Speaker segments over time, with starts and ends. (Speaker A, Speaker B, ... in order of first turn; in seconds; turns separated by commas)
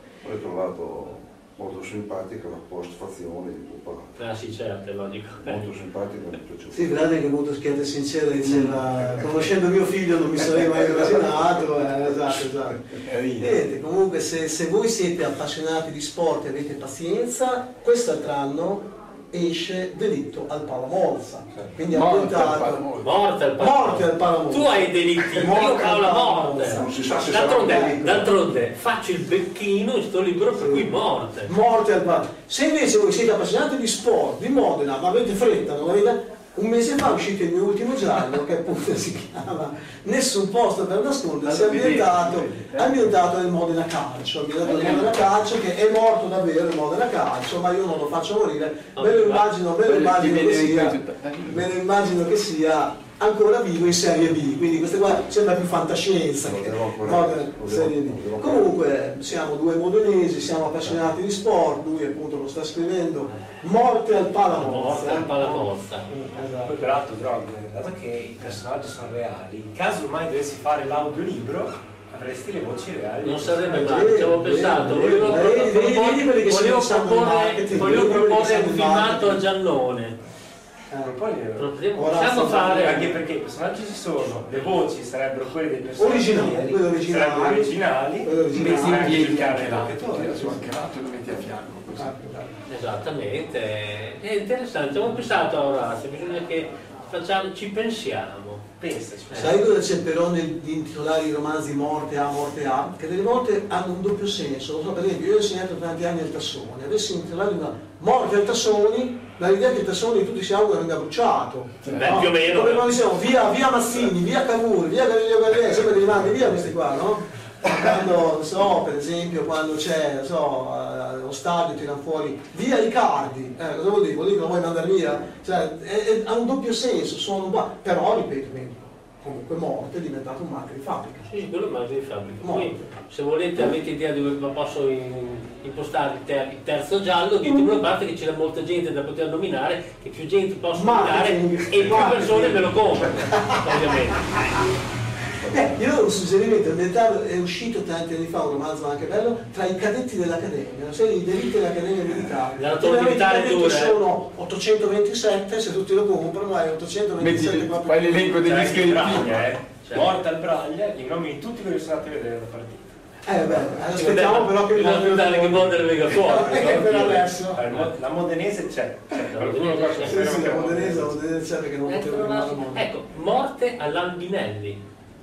Speaker A: 0.2-4.2, Speaker B: 4.2-5.6, Speaker A: 5.4-6.9, Speaker C: 6.7-22.9, Speaker A: 10.7-11.4, Speaker D: 13.0-13.6, Speaker D: 21.9-23.1, Speaker B: 23.0-31.5, Speaker C: 23.6-28.3, Speaker A: 26.7-28.3, Speaker C: 30.6-30.9, Speaker C: 31.4-66.8, Speaker D: 41.5-43.1, Speaker D: 44.6-45.2, Speaker B: 49.0-49.5, Speaker D: 49.8-51.7, Speaker A: 56.4-58.7, Speaker B: 64.5-66.0, Speaker E: 66.6-74.0, Speaker B: 73.2-80.2, Speaker C: 73.7-79.4, Speaker C: 80.9-81.2, Speaker E: 81.0-81.7, Speaker B: 81.5-83.2, Speaker C: 81.9-83.1, Speaker E: 82.6-90.6, Speaker C: 86.0-89.5, Speaker D: 88.5-92.1, Speaker C: 90.2-90.6, Speaker C: 92.0-92.5, Speaker B: 92.7-98.7, Speaker E: 98.8-99.6, Speaker B: 99.3-99.5, Speaker C: 99.3-131.3, Speaker D: 111.8-112.2, Speaker B: 111.9-112.9, Speaker B: 131.3-144.7, Speaker C: 132.4-132.9, Speaker C: 137.4-137.8, Speaker C: 140.7-143.9, Speaker C: 145.4-158.6, Speaker B: 152.6-154.0, Speaker D: 157.2-159.5, Speaker E: 158.3-162.9, Speaker B: 159.8-160.1, Speaker C: 163.2-167.6, Speaker B: 163.7-166.8, Speaker E: 166.3-171.2, Speaker B: 169.3-170.3, Speaker C: 170.0-172.9, Speaker B: 171.8-174.8